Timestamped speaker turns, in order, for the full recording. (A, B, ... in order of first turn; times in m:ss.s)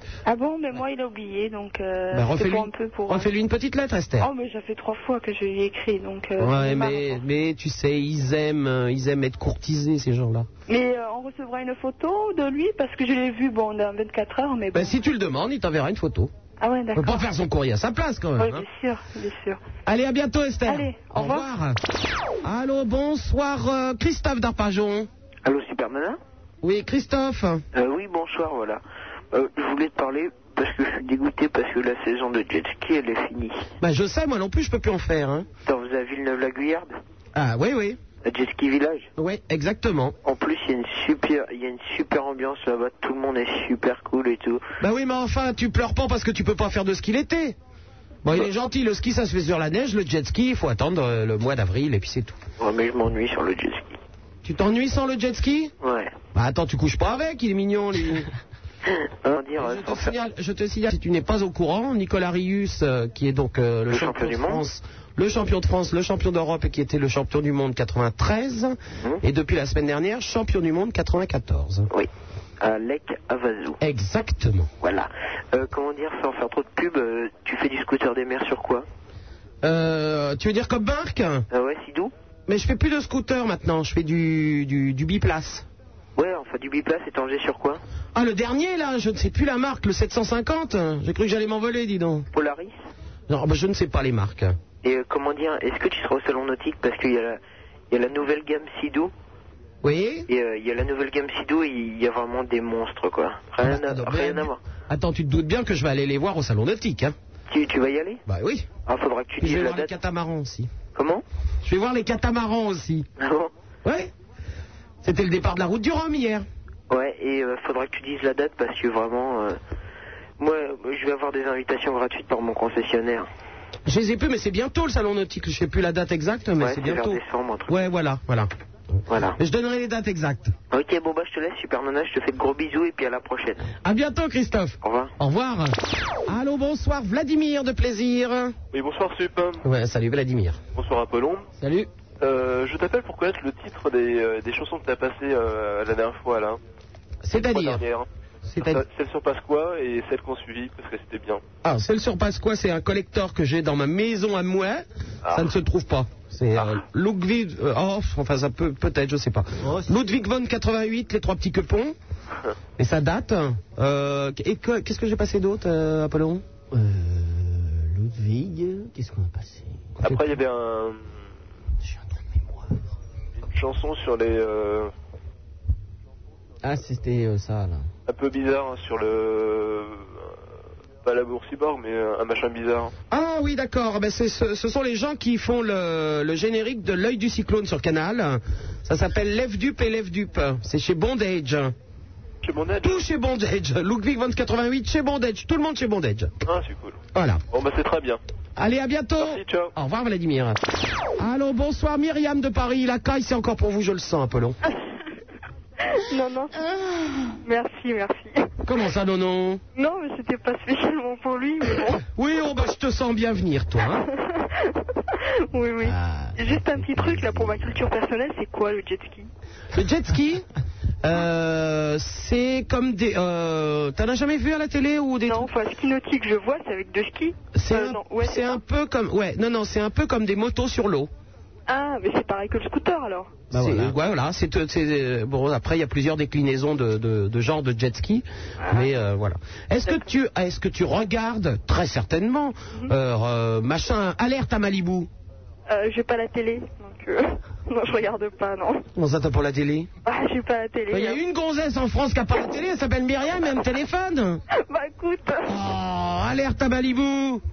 0:00.2-0:03.3 A
0:02.1-0:04.3 B
0:04.2-0:07.2 A
0:06.4-0:10.5 B
0:10.7-0:15.0 A
0:14.7-0:16.3 B
0:16.6-0:17.3 A
0:16.9-0:18.6 B
0:18.4-0:19.6 A
0:19.8-0:21.8 B
0:20.7-0:21.5 A
0:22.4-0:25.1 B
0:25.4-0:26.2 C
0:26.6-0:27.6 B
0:27.7-0:33.7 C
0:33.8-0:35.5 B
0:35.6-0:36.9 C
0:37.3-0:38.0 B
0:38.2-0:39.1 C
0:39.2-0:40.2 B
0:40.2-0:44.6 C
0:44.8-0:47.6 B
0:48.2-0:52.4 B
0:52.6-0:54.0 C
0:54.4-0:55.7 B
0:55.8-0:56.1 C
0:56.3-0:58.3 B
0:58.9-1:00.1 C
0:59.6-1:11.9 B
1:03.9-1:04.6 C
1:11.9-1:13.8 C
1:13.8-1:14.7 B
1:14.8-1:18.8 C
1:19.6-1:21.5 B
1:21.5-1:22.1 C
1:22.5-1:25.7 B
1:26.1-1:27.8 C
1:28.1-1:32.3 B
1:32.3-1:32.7 C
1:33.3-1:34.6 B
1:34.8-1:37.4 C
1:37.9-1:39.1 C
1:39.8-1:40.3 B
1:40.3-1:44.6 C
1:43.6-1:47.1 B
1:47.5-1:48.2 C
1:48.2-1:48.7 B
1:48.8-1:49.9 C
1:49.4-1:50.7 B
1:50.9-1:51.2 C
1:51.6-1:53.1 B
1:53.2-1:53.5 C
1:53.8-1:54.1 B
1:55.0-1:56.4 B
1:56.9-1:59.6 C
2:00.4-2:03.3 C
2:03.9-2:08.5 B
2:06.6-2:07.8 C
2:09.1-2:09.4 C
2:09.4-2:10.5 B
2:10.7-2:13.7 C
2:13.8-2:18.6 B
2:14.8-2:15.1 C
2:18.7-2:19.6 D
2:19.6-2:20.6 B
2:20.7-2:21.5 D
2:22.2-2:26.6 D
2:27.2-2:27.8 B
2:27.3-2:31.4 D
2:28.5-2:28.8 B
2:31.6-2:41.9 B
2:35.2-2:35.5 D
2:39.6-2:40.0 E
2:42.8-2:46.4 B
2:46.7-2:49.9 E
2:50.0-2:51.1 D
2:51.8-2:52.8 E
2:53.5-2:54.9 D
2:56.6-2:57.9 E
2:58.1-3:00.4 D
3:01.0-3:02.9 D
3:03.1-3:11.7 B
3:12.4-3:13.0 D
3:12.8-3:16.3 B
3:16.4-3:18.2 D
3:17.1-3:17.4 B
3:18.6-3:20.6 B
3:19.2-3:19.7 D
3:21.2-3:24.6 B
3:25.9-3:26.7 A
3:27.4-3:28.4 A
3:28.6-3:29.6 B
3:29.8-3:32.0 A
3:32.1-3:34.0 B
3:34.2-3:34.6 A
3:35.5-3:39.3 A
3:35.8-3:37.8 E
3:39.7-3:40.4 B
3:41.0-3:45.5 B
3:45.2-3:48.6 A
3:47.5-3:51.1 B
3:51.7-3:53.3 A
3:53.5-4:05.1 B
3:53.5-3:54.0 E
3:58.6-3:58.9 A
4:05.7-4:08.8 A
4:08.9-4:09.9 B
4:10.0-4:11.2 A
4:10.9-4:14.4 B
4:14.6-4:15.5 A
4:15.4-4:17.4 B